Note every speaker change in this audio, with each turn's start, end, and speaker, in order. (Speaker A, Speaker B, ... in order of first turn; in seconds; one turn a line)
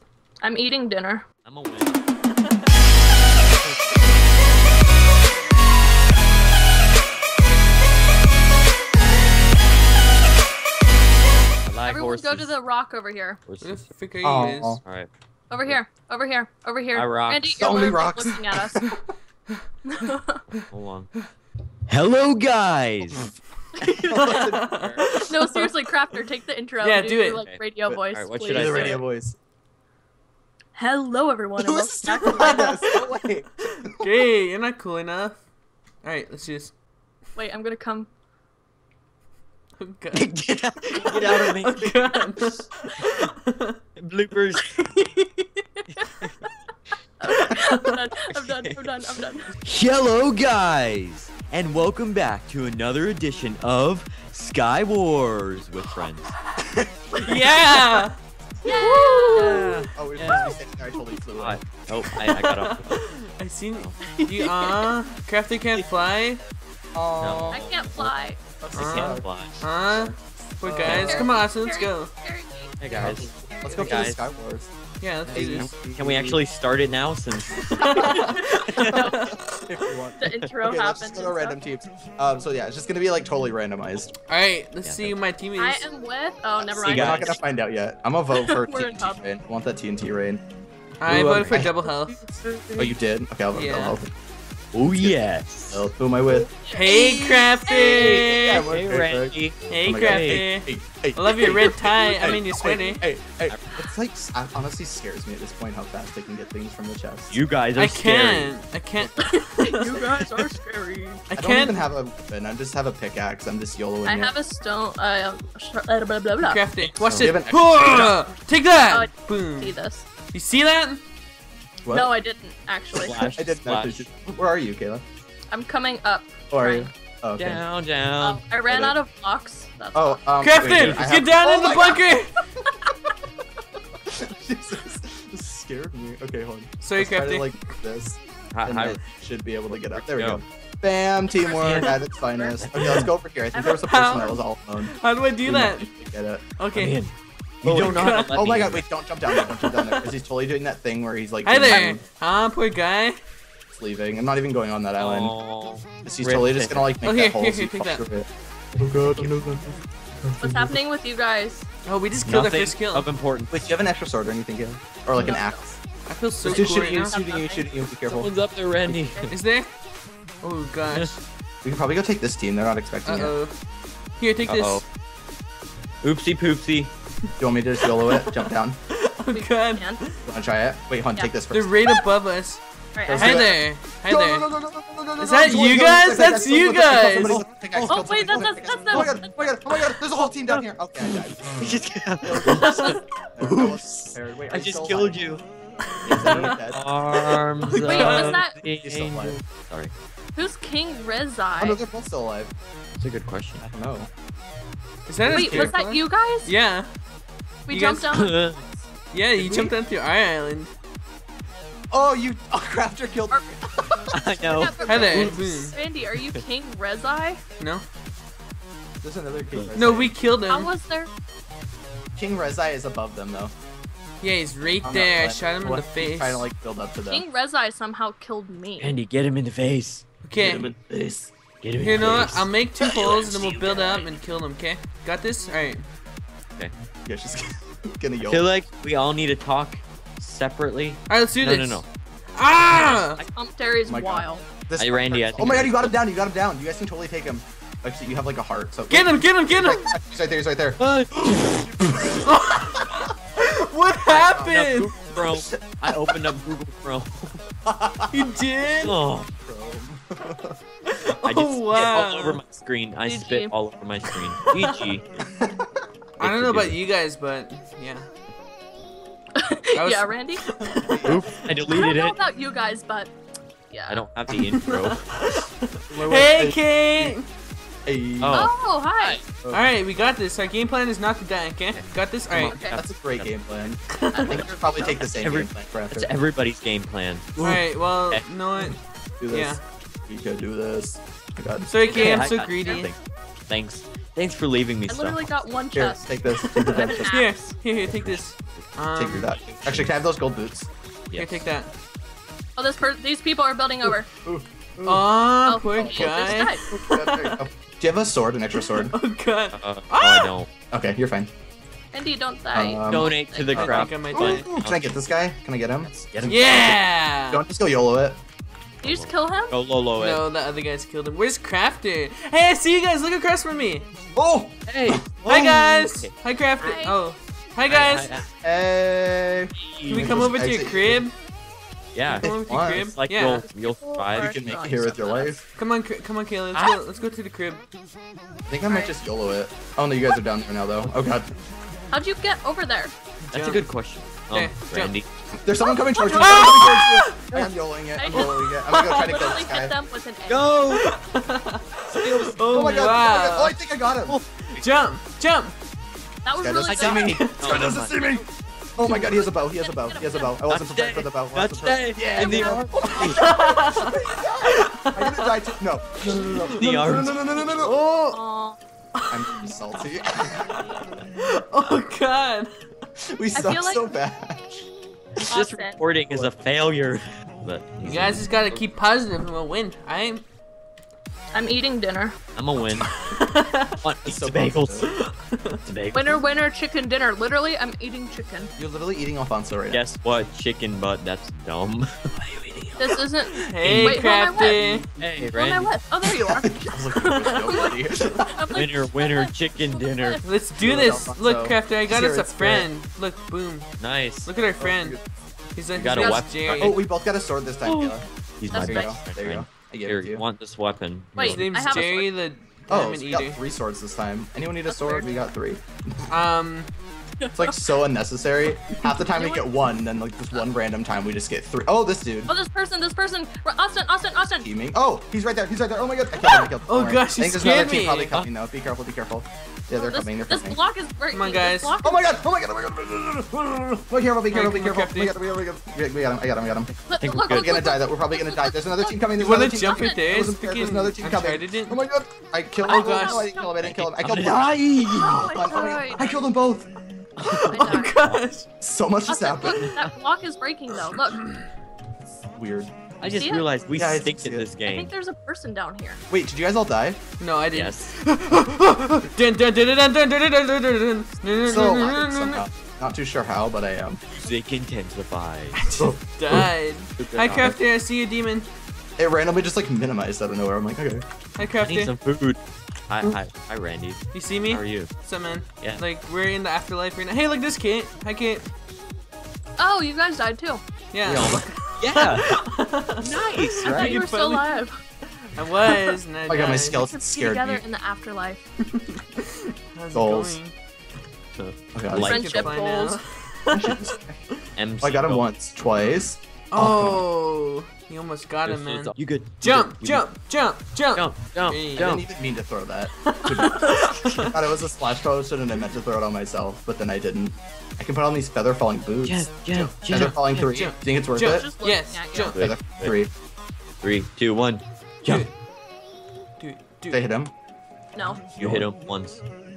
Speaker A: 0.4-1.2
Speaker B: 1.4-2.0
Speaker B: 11.6-12.6
Speaker A: 11.8-13.4
Speaker B: 13.4-13.8
Speaker C: 13.6-14.8
Speaker D: 14.2-14.8
Speaker B: 14.8-15.1
Speaker A: 15.5-19.0
Speaker B: 16.9-17.6
Speaker D: 17.6-19.0
Speaker A: 19.9-20.4
Speaker B: 20.6-21.1
Speaker B: 21.9-23.3
Speaker A: 23.8-24.4
Speaker D: 24.0-24.8
Speaker C: 24.2-25.6
Speaker B: 24.7-25.2
Speaker A: 25.1-29.0
Speaker C: 26.8-27.4
Speaker B: 27.4-29.0
Speaker D: 28.5-29.4
Speaker A: 30.7-32.8
Speaker D: 31.6-34.1
Speaker C: 32.3-32.9
Speaker C: 33.9-35.4
Speaker C: 36.0-36.7
Speaker A: 37.4-38.1
Speaker C: 39.8-40.3
Speaker B: 40.1-42.6
Speaker C: 40.9-43.8
Speaker B: 44.0-44.9
Speaker A: 44.6-46.1
Speaker B: 46.0-46.5
Speaker A: 47.2-49.5
Speaker B: 48.2-48.9
Speaker B: 49.6-56.4
Speaker C: 57.2-59.9
Speaker A: 58.6-59.8
Speaker B: 59.3-60.5
Speaker D: 59.9-61.6
Speaker B: 61.3-63.0
Speaker C: 62.0-66.4
Speaker A: 64.1-64.9
Speaker D: 66.9-69.2
Speaker B: 67.2-67.9
Speaker A: 67.5-68.4
Speaker B: 68.7-69.6
Speaker C: 68.8-72.1
Speaker D: 69.9-71.2
Speaker B: 70.8-71.2
Speaker A: 70.9-74.1
Speaker B: 72.8-74.2
Speaker D: 72.9-74.7
Speaker C: 75.0-75.7
Speaker B: 75.3-79.1
Speaker D: 75.3-76.4
Speaker C: 77.6-79.2
Speaker A: 77.8-79.3
Speaker D: 78.8-84.1
Speaker A: 80.2-81.6
Speaker C: 84.3-85.9
Speaker B: 84.8-85.1
Speaker A: 85.6-87.4
Speaker B: 86.7-87.4
Speaker D: 86.8-90.4
Speaker A: 88.3-89.2
Speaker C: 91.0-92.2
Speaker D: 91.0-91.9
Speaker B: 91.1-92.9
Speaker D: 92.8-94.1
Speaker C: 93.5-94.0
Speaker B: 94.7-95.9
Speaker D: 94.9-95.2
Speaker D: 95.7-97.2
Speaker A: 96.6-98.2
Speaker C: 96.7-98.6
Speaker D: 97.8-107.4
Speaker B: 97.8-100.5
Speaker C: 99.7-103.0
Speaker B: 103.5-103.9
Speaker B: 107.3-108.6
Speaker C: 107.8-110.3
Speaker A: 109.2-111.2
Speaker C: 111.3-111.8
Speaker D: 111.3-114.3
Speaker A: 114.0-116.6
Speaker C: 116.4-119.8
Speaker B: 116.8-117.4
Speaker D: 117.2-118.2
Speaker A: 118.9-120.0
Speaker C: 120.3-121.0
Speaker D: 121.8-122.2
Speaker A: 121.9-123.5
Speaker B: 122.9-124.2
Speaker D: 123.4-125.0
Speaker A: 125.5-126.9
Speaker D: 126.5-127.6
Speaker B: 127.4-128.4
Speaker A: 128.2-130.2
Speaker D: 128.7-128.9
Speaker D: 129.9-132.0
Speaker C: 130.4-132.3
Speaker B: 130.6-131.0
Speaker D: 134.0-146.4
Speaker C: 136.8-137.5
Speaker B: 138.5-139.0
Speaker B: 139.7-140.4
Speaker B: 141.5-143.1
Speaker A: 143.5-143.8
Speaker C: 143.6-145.9
Speaker C: 146.6-147.0
Speaker B: 146.7-147.1
Speaker B: 147.6-148.8
Speaker D: 147.6-152.0
Speaker C: 147.7-148.5
Speaker C: 149.3-150.0
Speaker C: 151.4-153.2
Speaker A: 151.7-151.9
Speaker D: 153.7-155.4
Speaker B: 155.0-156.9
Speaker D: 156.0-160.7
Speaker C: 157.0-158.1
Speaker A: 160.4-161.6
Speaker C: 161.8-163.1
Speaker B: 162.2-163.8
Speaker D: 163.5-165.8
Speaker A: 165.2-165.7
Speaker C: 166.1-167.1
Speaker D: 166.4-168.3
Speaker A: 166.5-167.7
Speaker B: 168.1-169.3
Speaker A: 169.0-169.3
Speaker C: 169.3-169.7
Speaker C: 170.4-171.1
Speaker B: 170.9-171.2
Speaker D: 171.6-173.3
Speaker C: 173.0-173.5
Speaker C: 174.2-174.8
Speaker B: 174.5-174.8
Speaker B: 176.0-176.9
Speaker D: 177.4-178.8
Speaker C: 178.9-180.1
Speaker A: 179.3-180.0
Speaker D: 180.2-181.8
Speaker C: 181.5-182.6
Speaker A: 182.9-183.4
Speaker D: 183.1-195.2
Speaker C: 183.2-184.5
Speaker C: 185.2-187.4
Speaker B: 187.2-195.4
Speaker A: 187.8-189.6
Speaker C: 192.5-193.0
Speaker C: 196.0-196.5
Speaker D: 196.0-196.8
Speaker B: 196.0-199.9
Speaker C: 197.7-198.4
Speaker A: 197.8-198.6
Speaker D: 198.7-199.4
Speaker A: 200.3-201.8
Speaker D: 201.6-202.5
Speaker B: 203.0-203.6
Speaker D: 203.6-204.1
Speaker C: 205.1-206.9
Speaker D: 205.2-205.7
Speaker A: 205.3-206.5
Speaker A: 207.7-208.5
Speaker C: 207.7-208.2
Speaker B: 208.1-208.6
Speaker C: 209.1-210.7
Speaker D: 209.4-209.7
Speaker D: 211.9-215.4
Speaker B: 214.1-215.3
Speaker A: 214.4-217.4
Speaker C: 214.8-215.8
Speaker C: 217.6-217.8
Speaker D: 219.0-220.1
Speaker C: 219.7-220.7
Speaker A: 220.5-221.1
Speaker D: 222.2-223.5
Speaker C: 224.2-226.5
Speaker D: 224.8-227.2
Speaker A: 227.1-228.9
Speaker B: 228.8-230.7
Speaker C: 230.2-230.7
Speaker D: 230.3-231.3
Speaker B: 231.6-232.5
Speaker C: 231.8-235.8
Speaker B: 233.1-234.0
Speaker D: 237.1-238.5
Speaker B: 238.3-241.9
Speaker C: 241.1-241.8
Speaker C: 242.3-243.2
Speaker B: 242.7-243.3
Speaker A: 243.3-244.4
Speaker D: 243.9-252.3
Speaker B: 244.8-245.9
Speaker C: 248.9-249.9
Speaker B: 250.8-252.1
Speaker C: 252.2-254.9
Speaker B: 254.1-257.4
Speaker D: 254.2-254.6
Speaker D: 255.3-255.9
Speaker D: 257.6-258.3
Speaker C: 258.1-259.0
Speaker B: 258.7-259.3
Speaker D: 259.4-260.6
Speaker C: 260.9-262.4
Speaker B: 261.2-265.1
Speaker A: 263.0-263.6
Speaker D: 265.4-265.7
Speaker C: 266.2-268.1
Speaker B: 266.2-266.8
Speaker A: 269.4-270.5
Speaker C: 269.7-271.1
Speaker D: 270.7-271.3
Speaker B: 271.0-272.2
Speaker A: 271.7-273.1
Speaker A: 273.7-274.1
Speaker B: 273.9-275.1
Speaker C: 274.8-277.3
Speaker D: 275.9-277.1
Speaker D: 277.9-278.5
Speaker B: 278.2-279.2
Speaker A: 278.3-279.2
Speaker C: 279.5-282.6
Speaker B: 281.7-283.4
Speaker A: 282.5-282.8
Speaker D: 282.7-286.1
Speaker C: 283.9-284.4
Speaker A: 284.1-285.1
Speaker B: 285.1-288.2
Speaker C: 287.4-288.8
Speaker D: 288.6-291.7
Speaker C: 289.3-289.6
Speaker C: 291.6-292.9
Speaker B: 291.8-293.0
Speaker A: 291.9-292.9
Speaker B: 293.5-295.3
Speaker A: 294.9-297.5
Speaker D: 295.7-297.1
Speaker C: 296.6-299.3
Speaker B: 297.8-298.8
Speaker D: 298.9-300.7
Speaker B: 299.5-299.9
Speaker B: 301.1-301.4
Speaker C: 301.1-301.7
Speaker A: 302.6-304.1
Speaker D: 304.2-305.1
Speaker C: 304.8-307.4
Speaker A: 305.4-306.6
Speaker D: 305.8-308.9
Speaker C: 308.6-310.3
Speaker B: 309.5-310.5
Speaker D: 310.7-311.3
Speaker A: 311.9-313.8
Speaker D: 312.5-318.2
Speaker B: 312.9-314.9
Speaker C: 313.5-314.5
Speaker B: 315.9-316.8
Speaker C: 316.2-317.4
Speaker A: 318.8-319.6
Speaker B: 318.8-320.2
Speaker C: 319.9-323.9
Speaker D: 324.1-325.1
Speaker B: 324.7-326.1
Speaker C: 325.2-328.2
Speaker A: 326.6-327.0
Speaker B: 327.7-328.3
Speaker D: 328.4-331.0
Speaker B: 329.6-330.2
Speaker C: 329.9-331.1
Speaker B: 331.9-334.8
Speaker C: 332.1-333.4
Speaker D: 332.2-332.9
Speaker A: 333.5-335.4
Speaker D: 334.2-335.4
Speaker C: 335.6-337.6
Speaker D: 338.5-341.3
Speaker A: 338.7-338.9
Speaker A: 341.9-342.9
Speaker D: 343.3-343.6
Speaker C: 343.3-343.6
Speaker B: 343.3-345.1
Speaker C: 344.3-344.9
Speaker D: 345.4-349.8
Speaker A: 345.8-346.6
Speaker C: 346.1-347.4
Speaker A: 347.9-350.6
Speaker C: 348.1-349.1
Speaker B: 350.3-350.9
Speaker C: 350.7-353.6
Speaker D: 351.9-354.2
Speaker B: 352.1-352.4
Speaker B: 354.1-354.6
Speaker C: 354.6-355.5
Speaker A: 356.2-357.2
Speaker D: 356.4-367.8
Speaker B: 356.6-358.2
Speaker C: 357.0-357.7
Speaker A: 358.8-360.4
Speaker B: 360.5-363.2
Speaker A: 362.1-363.7
Speaker C: 363.2-365.2
Speaker C: 366.0-366.6
Speaker B: 366.2-367.4
Speaker C: 367.6-368.2
Speaker A: 368.1-368.6
Speaker C: 369.0-369.5
Speaker D: 369.1-370.5
Speaker C: 370.2-372.5
Speaker D: 373.0-374.6
Speaker A: 373.3-373.9
Speaker B: 375.2-378.6
Speaker A: 375.2-375.8
Speaker C: 377.8-380.2
Speaker A: 381.3-382.2
Speaker B: 382.3-383.0
Speaker C: 383.0-383.7
Speaker B: 383.8-384.9
Speaker D: 384.0-384.9
Speaker C: 385.0-385.6
Speaker B: 385.6-386.2
Speaker A: 385.9-388.5
Speaker D: 388.6-389.9
Speaker B: 389.7-391.9
Speaker C: 392.2-394.9
Speaker A: 392.8-400.2
Speaker B: 393.6-394.0
Speaker B: 395.0-395.7
Speaker D: 396.3-398.5
Speaker B: 398.5-400.2
Speaker C: 400.2-405.0
Speaker D: 400.6-402.7
Speaker B: 403.8-404.3
Speaker D: 404.6-405.0
Speaker C: 405.5-406.8
Speaker B: 405.7-406.8
Speaker A: 405.9-406.3
Speaker D: 406.5-410.2
Speaker B: 408.4-411.9
Speaker A: 408.5-409.0
Speaker C: 411.2-413.4
Speaker A: 411.2-412.1
Speaker D: 412.7-416.1
Speaker A: 414.7-415.1
Speaker C: 416.1-416.7
Speaker A: 417.2-417.5
Speaker D: 417.3-422.3
Speaker A: 418.9-419.5
Speaker A: 422.3-424.5
Speaker D: 424.4-430.6
Speaker C: 426.6-428.1
Speaker A: 429.7-432.2
Speaker C: 431.1-431.7
Speaker D: 431.8-446.7
Speaker C: 434.3-435.1
Speaker A: 436.9-439.0
Speaker B: 437.0-437.6
Speaker C: 439.2-441.8
Speaker A: 439.6-440.1
Speaker A: 442.6-443.6
Speaker C: 442.6-443.2
Speaker B: 443.6-445.4
Speaker A: 444.9-446.3
Speaker B: 447.2-448.2
Speaker A: 447.5-447.9
Speaker C: 447.5-448.5
Speaker D: 448.6-449.7
Speaker A: 449.1-451.2
Speaker B: 449.5-449.9
Speaker D: 452.3-452.7
Speaker A: 453.0-453.5
Speaker B: 453.0-454.9
Speaker D: 453.7-454.5
Speaker A: 454.6-456.0
Speaker D: 456.1-457.0
Speaker C: 457.2-462.4
Speaker B: 457.5-457.9
Speaker D: 461.4-464.0
Speaker B: 464.1-465.6
Speaker C: 465.5-468.5
Speaker D: 465.8-466.5
Speaker B: 467.0-467.6
Speaker D: 469.0-471.0
Speaker C: 471.4-471.9
Speaker B: 471.5-474.9
Speaker C: 474.1-478.5
Speaker A: 479.6-480.6
Speaker C: 480.9-484.6
Speaker D: 481.0-481.4
Speaker B: 481.1-484.0
Speaker A: 483.6-484.8
Speaker C: 485.2-486.9
Speaker D: 486.3-487.6
Speaker A: 486.7-488.4
Speaker C: 488.7-490.5
Speaker D: 489.9-490.4
Speaker B: 491.3-492.6
Speaker D: 491.7-492.5
Speaker C: 491.9-493.8
Speaker A: 492.0-493.0
Speaker D: 493.5-494.2
Speaker B: 494.6-495.3
Speaker D: 494.8-497.0
Speaker C: 496.5-502.0
Speaker B: 498.4-500.1
Speaker B: 500.9-502.1
Speaker D: 501.7-511.5
Speaker C: 503.1-504.3
Speaker B: 509.0-510.7
Speaker C: 509.9-512.4
Speaker A: 511.2-512.4
Speaker B: 512.3-513.0
Speaker D: 512.4-513.1
Speaker B: 513.8-515.2
Speaker C: 516.4-517.0
Speaker D: 516.9-517.3
Speaker A: 517.9-518.2
Speaker D: 518.4-518.7
Speaker B: 518.4-519.2